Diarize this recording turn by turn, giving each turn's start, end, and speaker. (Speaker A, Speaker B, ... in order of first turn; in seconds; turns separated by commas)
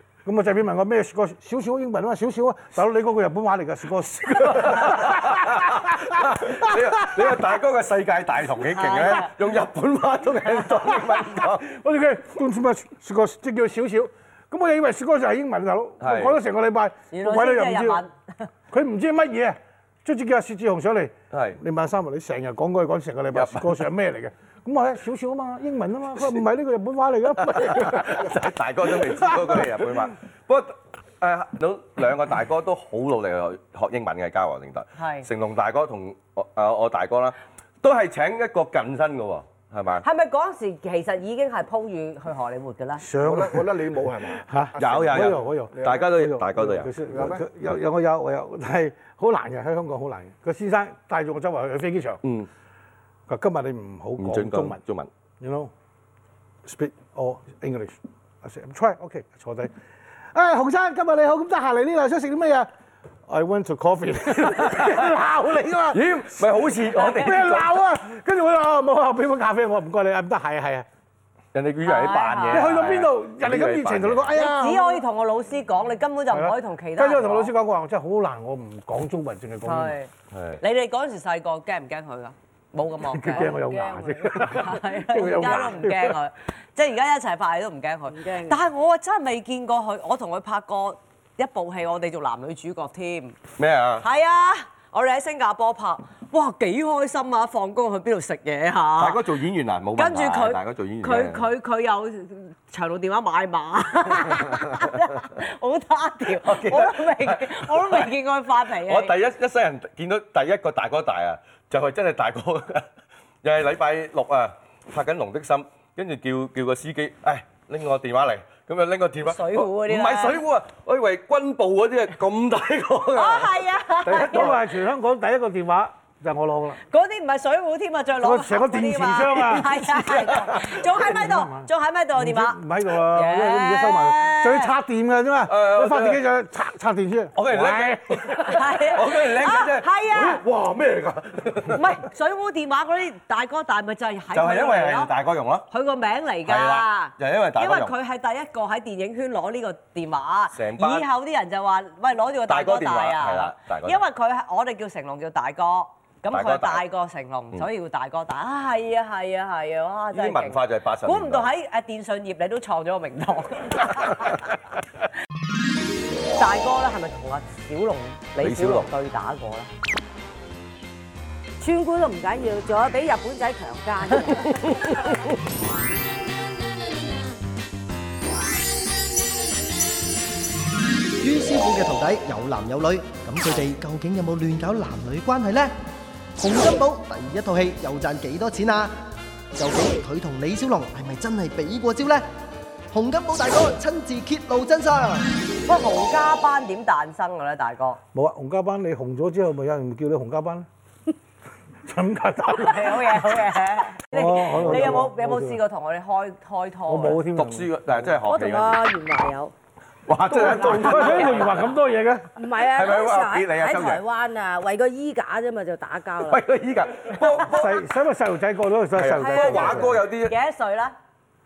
Speaker A: 0.2-7.2, Speaker B: 4.4-11.6, Speaker C: 8.7-9.3, Speaker A: 11.2-18.0, Speaker B: 16.0-16.4, Speaker C: 17.1-18.5, Speaker A: 18.7-28.2, Speaker B: 21.3-21.6, Speaker B: 23.3-23.8, Speaker B: 27.5-40.0, Speaker A: 29.2-29.8, Speaker C: 35.0-35.3, Speaker C: 40.0-43.0, Speaker A: 43.0-43.7, Speaker D: 43.2-46.1, Speaker A: 44.4-52.2, Speaker B: 44.8-46.9, Speaker D: 47.0-47.5, Speaker B: 52.2-52.5, Speaker A: 53.3-54.8, Speaker B: 54.2-55.1, Speaker A: 55.4-55.7, Speaker A: 56.6-59.7, Speaker A: 60.3-62.7, Speaker A: 63.3-66.0, Speaker B: 65.9-67.7, Speaker C: 66.9-67.4, Speaker A: 67.1-70.8, Speaker B: 71.5-74.3, Speaker C: 71.8-72.9, Speaker A: 72.5-75.0, Speaker C: 74.3-77.5, Speaker A: 76.3-80.0, Speaker C: 79.6-80.1, Speaker B: 80.3-80.6, Speaker C: 80.6-83.5, Speaker A: 83.1-86.2, Speaker E: 83.3-84.5, Speaker C: 84.4-93.4, Speaker E: 88.1-88.6, Speaker B: 93.6-94.0, Speaker C: 94.0-99.3, Speaker B: 99.0-101.5, Speaker C: 100.0-109.1, Speaker B: 106.4-108.1, Speaker B: 108.8-112.8, Speaker B: 113.4-123.5, Speaker C: 119.2-120.4, Speaker C: 123.1-124.6, Speaker A: 124.1-126.8, Speaker B: 124.1-124.6, Speaker C: 126.9-134.7, Speaker A: 128.2-130.0, Speaker B: 130.1-130.7, Speaker A: 130.8-138.5, Speaker B: 135.5-136.2, Speaker B: 137.3-141.8, Speaker C: 138.4-140.4, Speaker C: 141.7-145.1, Speaker B: 144.3-145.7, Speaker C: 145.7-164.4, Speaker B: 146.4-147.9, Speaker B: 150.5-151.1, Speaker B: 152.5-154.0, Speaker B: 156.3-156.8, Speaker B: 160.1-161.5, Speaker C: 166.3-169.7, Speaker B: 168.4-168.9, Speaker E: 171.6-174.7, Speaker F: 181.2-185.7, Speaker F: 186.4-188.9, Speaker F: 189.5-192.2, Speaker F: 192.9-195.3, Speaker C: 195.7-198.0, Speaker A: 198.1-200.7, Speaker A: 201.8-203.3, Speaker C: 202.5-207.2, Speaker A: 204.1-205.6, Speaker A: 206.9-207.7, Speaker B: 207.3-208.8, Speaker E: 208.2-209.5, Speaker B: 210.1-211.6, Speaker A: 210.3-212.3, Speaker C: 210.9-211.5, Speaker E: 212.3-216.4, Speaker B: 212.6-214.0, Speaker B: 216.2-217.8, Speaker A: 217.4-220.0, Speaker B: 218.9-220.3, Speaker E: 219.2-220.0, Speaker C: 219.5-220.9